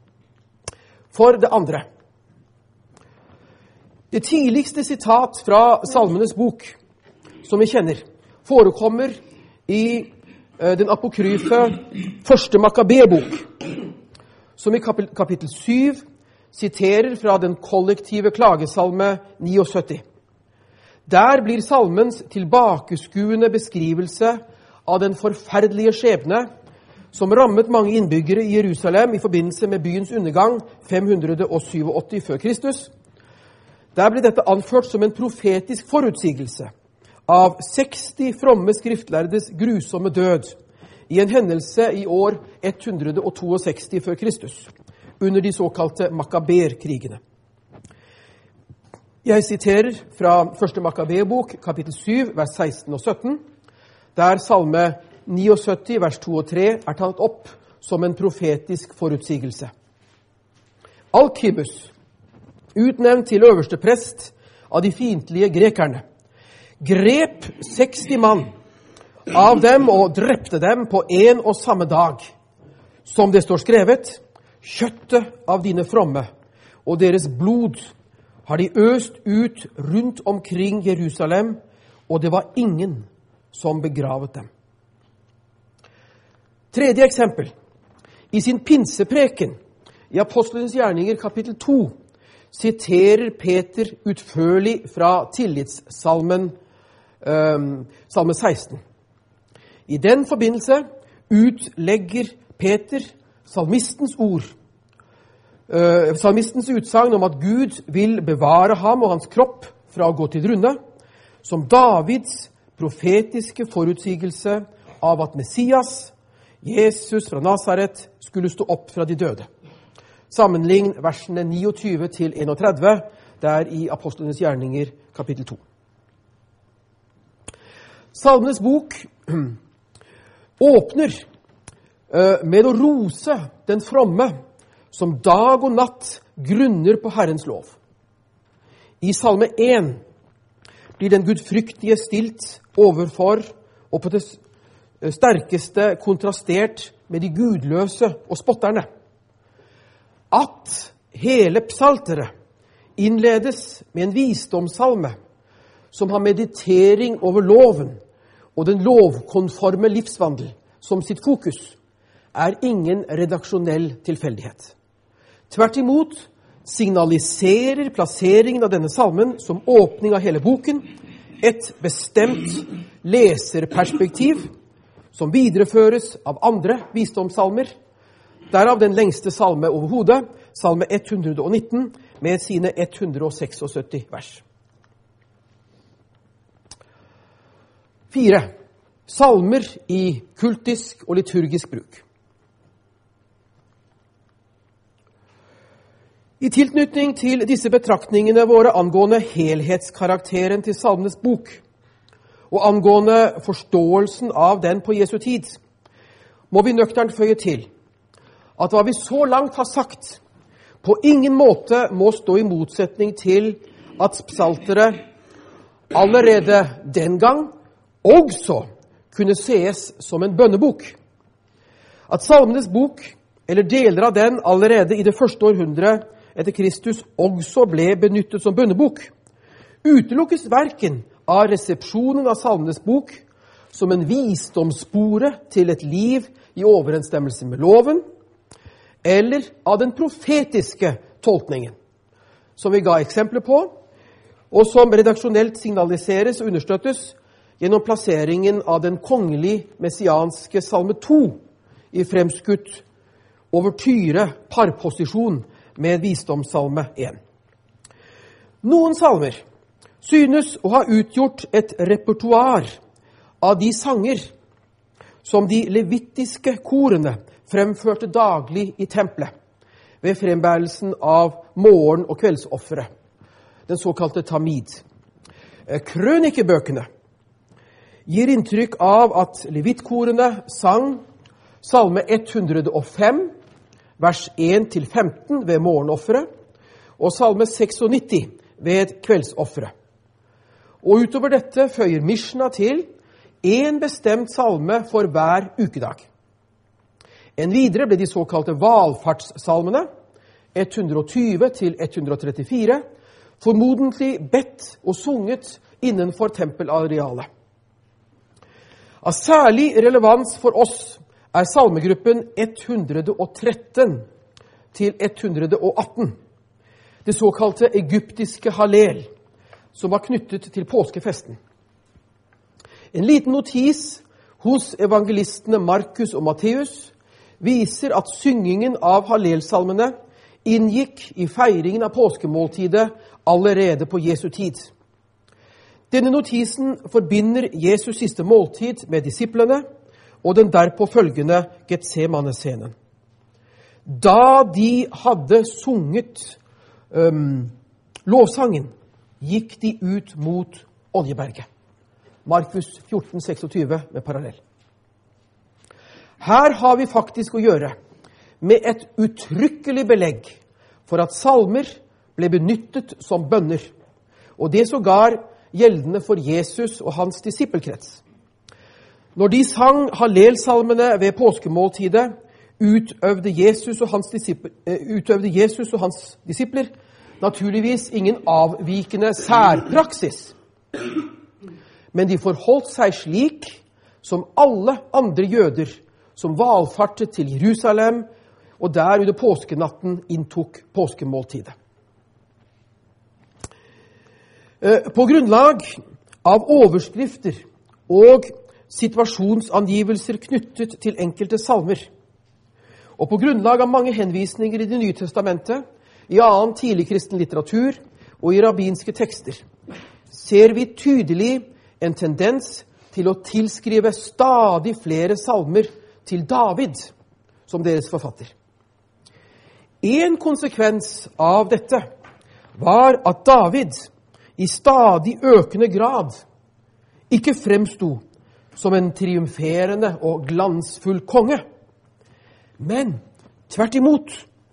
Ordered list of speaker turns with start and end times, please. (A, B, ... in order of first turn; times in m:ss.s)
0:01.1-0:01.8 A
0:04.1-0:06.8 A
0:07.5-0:13.5 A
0:14.6-0:20.0 A
0:21.1-0:26.5 A
0:27.1-0:32.9 A
0:34.0-0:36.7 A
0:37.3-0:40.6 A
0:41.1-0:44.7 A
0:45.2-0:47.2 A
0:49.2-0:53.4 A
0:54.2-0:59.7 A
1:01.1-1:01.9 A
1:02.8-1:06.0 A
1:06.8-1:08.5 A
1:09.3-1:12.3 A
1:13.0-1:16.3 A
1:16.9-1:17.9 A
1:18.5-1:21.6 A
1:22.1-1:24.5 A
1:26.7-1:27.5 A
1:28.3-1:29.6 A
1:30.1-1:31.9 A
1:32.5-1:36.5 A
1:37.2-1:38.8 A
1:39.9-1:44.5 A
1:45.7-1:50.8 A
1:51.4-1:59.5 A
2:00.3-2:05.6 A
2:08.1-2:09.6 A
2:10.6-2:11.2 A
2:12.1-2:14.3 A
2:14.9-2:17.8 A
2:19.0-2:20.0 A
2:21.0-2:24.4 A
2:25.0-2:28.9 A
2:30.3-2:32.3 A
2:33.0-2:35.2 A
2:35.9-2:38.0 A
2:38.6-2:41.8 A
2:42.3-2:44.7 A
2:45.5-2:50.9 A
2:51.4-2:54.5 A
2:55.1-2:57.7 A
2:58.5-3:04.4 A
3:08.1-3:08.5 A
3:09.1-3:12.0 A
3:16.4-3:21.6 A
3:22.5-3:25.6 A
3:26.5-3:27.7 A
3:28.6-3:30.2 A
3:30.8-3:35.0 A
3:35.9-3:37.5 A
3:38.0-3:41.0 A
3:42.1-3:49.1 A
3:49.8-3:58.0 A
3:59.0-4:01.8 A
4:02.6-4:03.7 A
4:04.5-4:11.4 A
4:11.9-4:12.8 A
4:13.5-4:17.2 A
4:18.6-4:19.4 A
4:20.0-4:22.8 A
4:23.4-4:24.3 A
4:25.2-4:29.3 A
4:30.0-4:32.9 A
4:33.7-4:34.8 A
4:35.7-4:36.9 A
4:38.1-4:41.0 A
4:41.6-4:43.3 A
4:44.0-4:46.3 A
4:47.0-4:49.7 A
4:50.8-4:52.8 A
4:53.4-4:56.0 A
4:57.4-4:59.9 A
5:00.6-5:02.8 A
5:03.4-5:07.3 A
5:09.0-5:14.0 A
5:14.7-5:16.2 A
5:17.0-5:19.1 A
5:19.8-5:21.4 A
5:22.9-5:29.9 A
5:30.4-5:34.7 A
5:35.9-5:39.6 A
5:40.2-5:42.7 A
5:43.9-5:46.4 A
5:46.9-5:47.5 A
5:48.1-5:51.5 A
5:52.2-5:54.4 A
5:56.2-5:57.7 A
5:58.4-6:03.7 A
6:04.4-6:08.0 A
6:09.2-6:16.7 A
6:17.2-6:20.3 A
6:21.9-6:28.1 A
6:28.6-6:31.5 A
6:34.6-6:41.9 A
6:43.0-6:49.4 A
6:50.1-6:56.9 A
6:57.5-6:58.3 A
6:59.8-7:01.8 A
7:02.6-7:06.2 A
7:07.1-7:08.0 A
7:08.6-7:11.4 A
7:12.6-7:14.2 A